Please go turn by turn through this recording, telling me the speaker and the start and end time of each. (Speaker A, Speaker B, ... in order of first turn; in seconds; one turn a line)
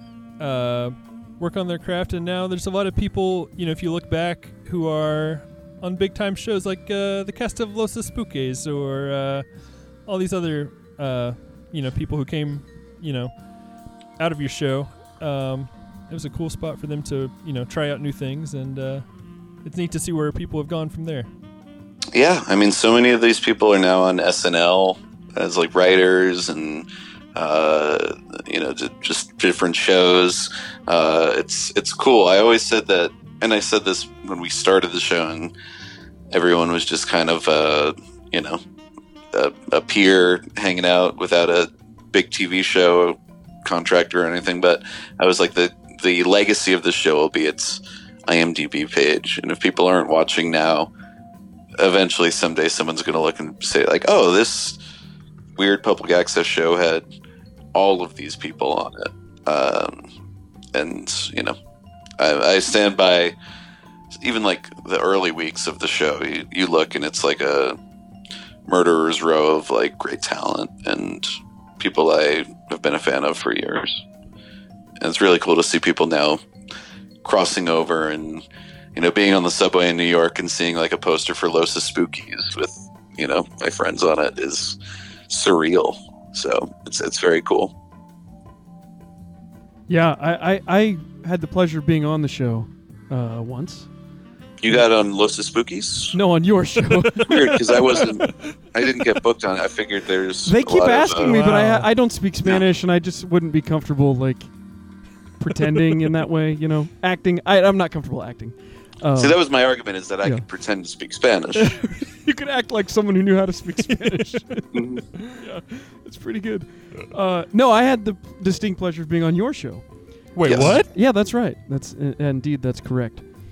Speaker A: 0.4-9.5
Speaker A: 10.0-13.3
Speaker A: 14.2-19.1
Speaker A: 19.6-21.3
Speaker B: 22.1-35.5
Speaker B: 36.3-38.6
Speaker B: 39.3-50.9
Speaker B: 51.8-54.8
Speaker B: 55.6-57.1
Speaker B: 57.7-60.1
Speaker B: 60.7-61.5
Speaker B: 62.2-63.4
Speaker B: 64.1-67.8
Speaker B: 68.7-74.1
Speaker B: 75.0-76.4
Speaker B: 77.2-84.8
Speaker B: 85.3-87.7
Speaker C: 89.9-93.9
Speaker B: 94.6-96.2
Speaker C: 96.1-97.8
Speaker A: 97.2-98.5
Speaker B: 97.2-101.4
Speaker C: 100.5-104.5
Speaker A: 101.2-101.9
Speaker C: 105.4-109.4
Speaker B: 109.2-111.8
Speaker C: 111.5-119.8
Speaker A: 113.9-114.4
Speaker B: 114.7-115.0
Speaker A: 120.3-120.9
Speaker B: 120.4-120.8
Speaker C: 120.5-123.2